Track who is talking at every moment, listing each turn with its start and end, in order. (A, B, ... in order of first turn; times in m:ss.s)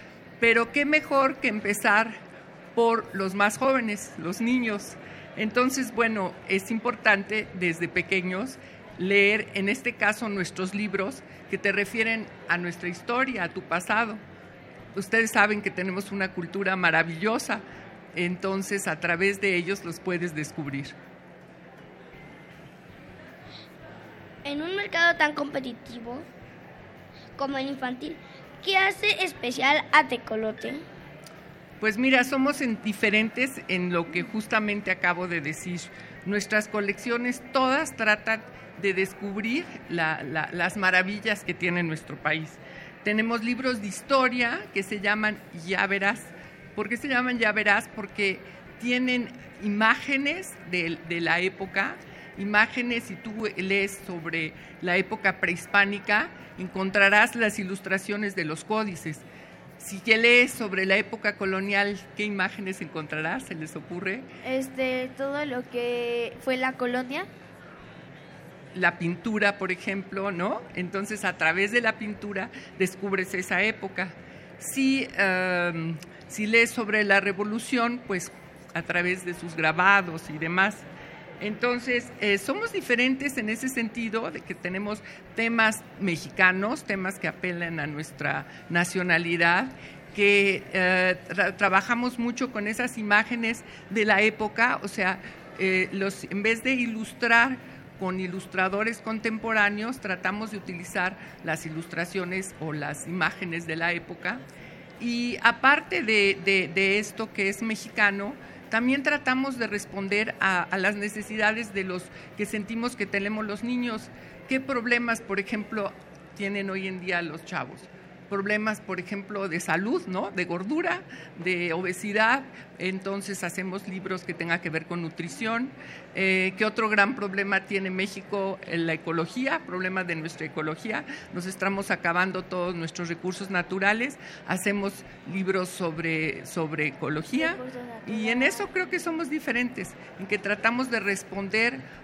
0:00.4-0:02.2 A
0:02.8-0:14.2 A
0:14.9-0:17.6 A
0:18.1-0:21.0 A
0:24.4-0:26.3 B
0:27.4-0:30.8 B
0:31.8-0:59.2 A
0:59.8-1:04.2 A
1:04.4-1:07.3 C
1:08.7-1:20.9 A
1:21.4-1:44.4 A
1:45.0-2:21.8 A
2:17.4-2:18.6 B